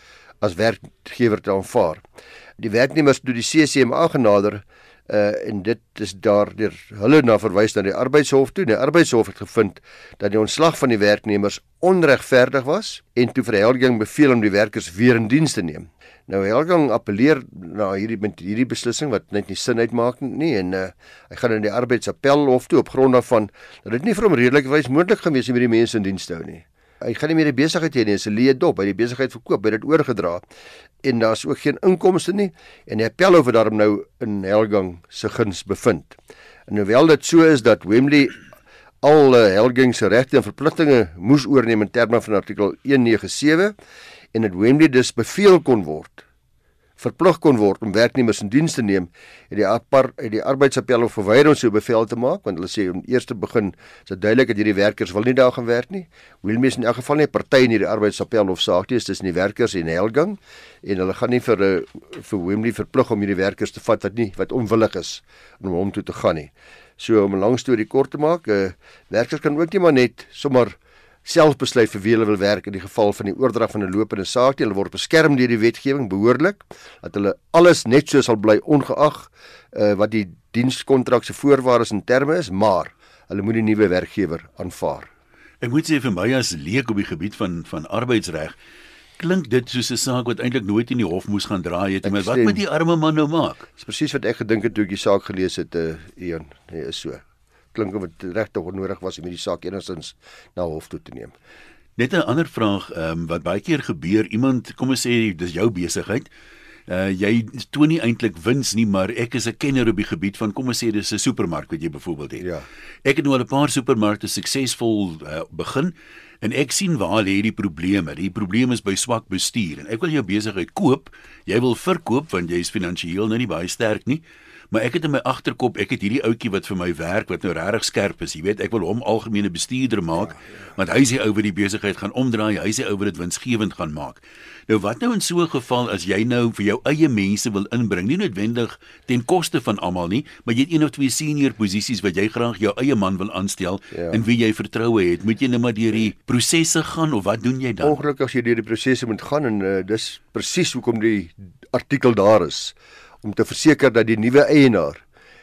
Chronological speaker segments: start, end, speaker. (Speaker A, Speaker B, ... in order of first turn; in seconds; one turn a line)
Speaker A: 0.4-2.0
Speaker A: 2.6-30.4
Speaker A: 31.0-36.2
Speaker A: 36.7-38.4
Speaker A: 39.0-43.7
Speaker A: 44.3-46.2
Speaker A: 47.0-85.1
Speaker B: 85.6-88.5
Speaker B: 89.2-93.7
Speaker A: 92.0-92.6
Speaker A: 93.8-101.3
Speaker B: 102.0-106.3
Speaker B: 106.9-112.5
Speaker A: 112.4-112.7
Speaker B: 113.0-148.0
Speaker A: 143.9-144.2
Speaker A: 147.8-155.0